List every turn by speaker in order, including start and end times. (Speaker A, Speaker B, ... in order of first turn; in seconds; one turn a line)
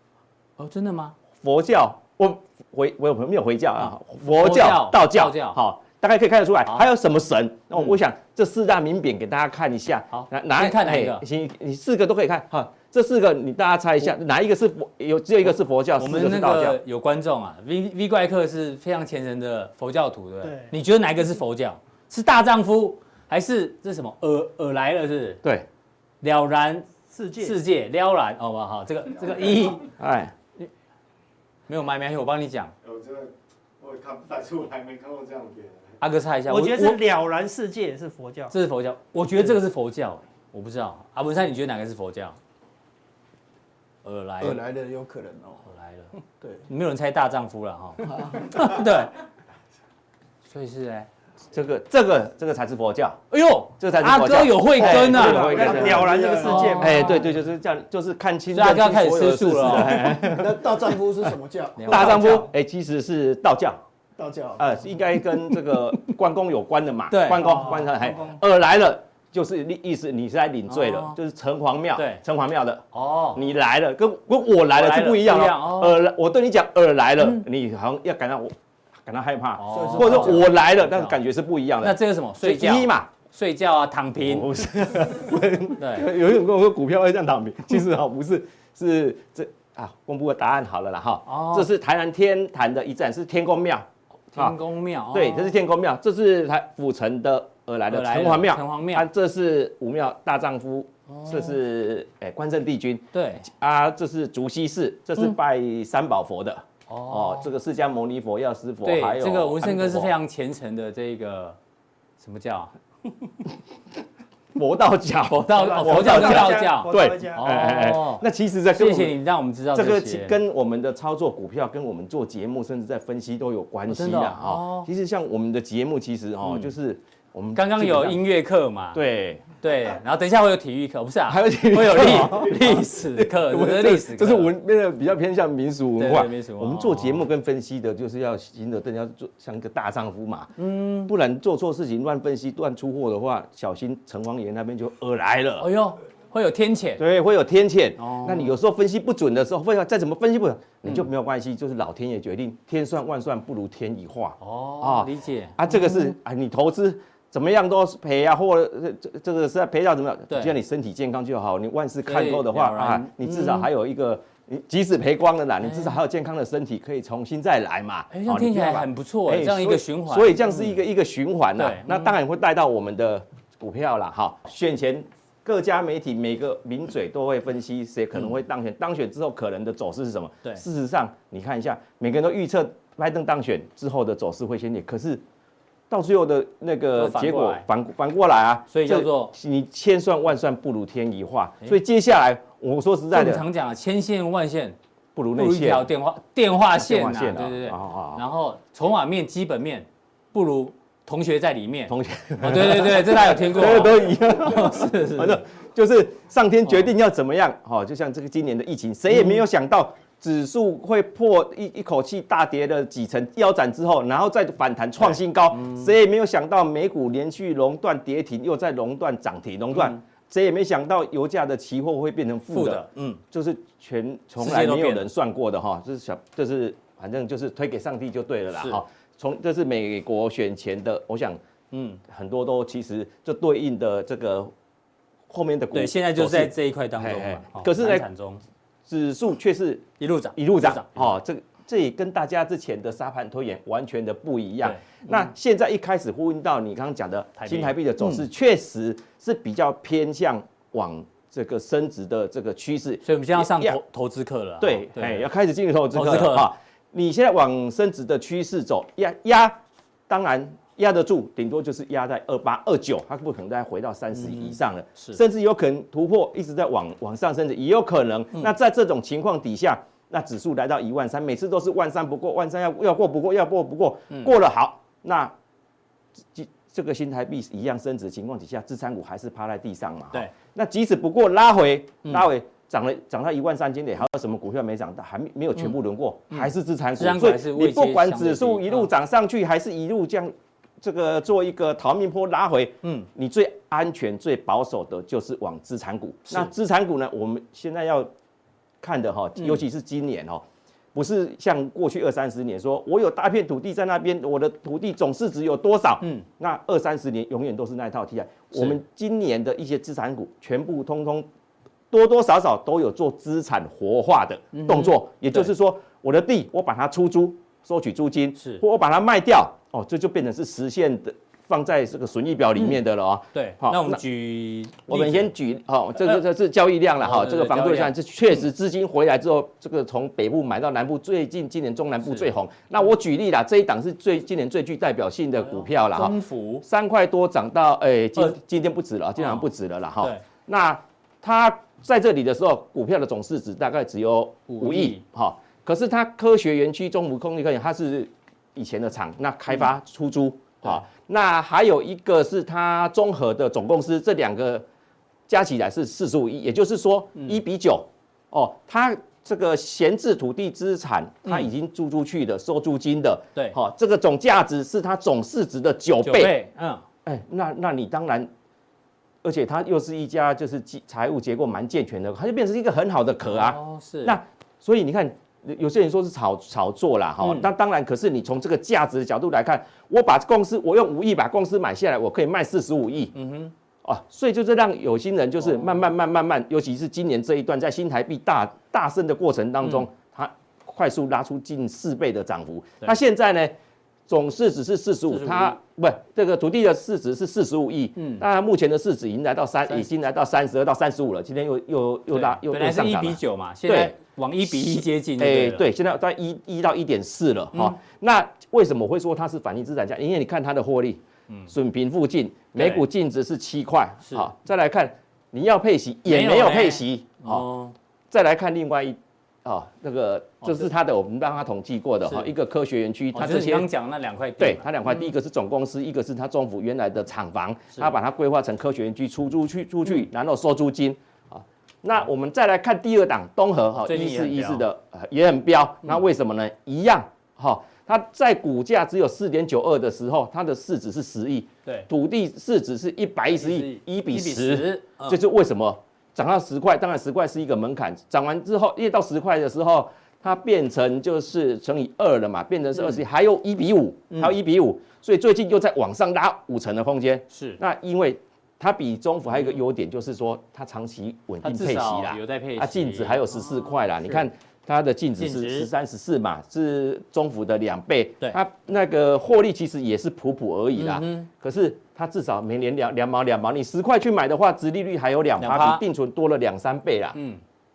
Speaker A: 0.6-1.1
Speaker B: 1.4-16.8
Speaker A: 3.8-5.6
Speaker A: 6.7-6.9
Speaker A: 10.1-11.2
Speaker A: 16.0-25.4
Speaker C: 20.4-20.7
Speaker A: 26.2-26.9
Speaker C: 27.1-27.6
Speaker A: 27.4-29.9
Speaker B: 30.0-30.3
Speaker A: 31.7-32.7
Speaker D: 32.8-35.9
Speaker A: 36.0-37.0
Speaker C: 36.5-38.5
Speaker A: 38.5-42.4
Speaker A: 44.0-44.6
Speaker E: 44.4-45.7
Speaker A: 45.7-46.1
Speaker A: 46.7-49.1
Speaker E: 48.0-48.7
Speaker A: 50.5-51.1
Speaker B: 51.5-53.2
Speaker A: 53.3-57.3
Speaker B: 53.8-56.3
Speaker C: 54.8-57.0
Speaker E: 55.4-57.0
Speaker B: 56.8-60.8
Speaker A: 58.5-60.2
Speaker E: 60.1-62.1
Speaker A: 61.8-62.5
Speaker B: 61.9-63.8
Speaker C: 62.0-62.5
Speaker E: 64.2-64.8
Speaker B: 64.6-83.1
Speaker A: 67.1-67.9
Speaker C: 67.4-68.4
Speaker A: 70.7-71.2
Speaker A: 72.0-72.2
Speaker A: 72.9-73.4
Speaker A: 74.7-76.0
Speaker A: 77.2-77.4
Speaker A: 79.6-81.2
Speaker E: 79.7-80.5
Speaker A: 81.8-84.6
Speaker B: 84.2-94.6
Speaker A: 85.8-86.1
Speaker A: 91.3-91.7
Speaker A: 94.3-95.5
Speaker B: 95.1-110.1
Speaker A: 97.9-99.1
Speaker A: 101.1-101.6
Speaker A: 103.1-103.5
Speaker A: 106.9-107.5
Speaker A: 108.8-111.6
Speaker A: 112.2-112.7
Speaker B: 114.5-119.2
Speaker A: 115.4-120.4
Speaker C: 115.5-117.5
Speaker B: 119.7-128.2
Speaker A: 123.9-124.9
Speaker A: 126.4-126.7
Speaker A: 127.5-129.0
Speaker B: 128.9-129.5
Speaker A: 129.6-134.5
Speaker B: 131.3-145.7
Speaker A: 136.0-137.3
Speaker A: 140.6-141.1
Speaker A: 145.6-147.0
Speaker B: 147.0-185.2
Speaker A: 148.0-148.6
Speaker A: 154.4-156.1
Speaker A: 162.1-163.7
Speaker A: 165.6-166.0
Speaker A: 168.1-170.8
Speaker A: 171.6-172.2
Speaker B: 185.9-193.4
Speaker A: 187.0-187.7
Speaker A: 188.7-189.3
Speaker A: 193.1-194.8
Speaker B: 195.2-195.9
Speaker A: 195.4-205.4
Speaker B: 196.8-198.2
Speaker B: 201.9-231.4
Speaker A: 209.1-209.4
Speaker A: 215.0-215.9
Speaker A: 219.7-220.0
Speaker A: 222.5-223.2
Speaker A: 224.4-225.1
Speaker A: 228.5-228.8
Speaker A: 231.7-232.0
Speaker B: 232.1-234.5
Speaker B: 235.3-238.1
Speaker A: 235.7-238.4
Speaker B: 238.9-253.8
Speaker A: 240.0-241.2
Speaker A: 244.6-245.3
Speaker A: 247.4-248.2
Speaker A: 253.1-255.3
Speaker B: 254.6-275.3
Speaker A: 255.9-256.5
Speaker A: 264.1-265.2
Speaker B: 276.3-298.1
Speaker A: 286.3-288.9
Speaker B: 298.8-311.3
Speaker B: 311.9-324.0
Speaker A: 314.5-315.5
Speaker A: 318.4-318.6
Speaker A: 323.3-325.3
Speaker B: 324.9-354.6
Speaker A: 327.0-328.5
Speaker A: 332.0-332.3
Speaker A: 335.4-336.6
Speaker A: 339.2-339.5
Speaker A: 344.5-345.0
Speaker B: 355.3-366.3
Speaker A: 366.0-366.8
Speaker B: 367.1-368.3
Speaker B: 369.2-383.1
Speaker A: 373.2-374.2
Speaker A: 377.2-377.5
Speaker A: 383.1-383.5
Speaker B: 383.8-393.6
Speaker A: 385.4-385.7
Speaker B: 394.1-417.4
Speaker A: 395.1-395.6
Speaker A: 398.0-398.2
Speaker A: 402.1-405.7
Speaker A: 412.6-412.9
Speaker A: 416.1-417.7
Speaker B: 418.1-423.7
Speaker A: 420.4-420.7
Speaker A: 422.1-422.3
Speaker A: 423.1-425.1
Speaker B: 424.4-477.2
Speaker A: 433.8-434.6
Speaker A: 443.3-445.2
Speaker A: 452.8-453.0
Speaker A: 457.3-457.6
Speaker A: 461.4-464.2
Speaker A: 465.2-465.7
Speaker A: 470.8-471.3
Speaker A: 475.4-475.8
Speaker A: 477.1-477.4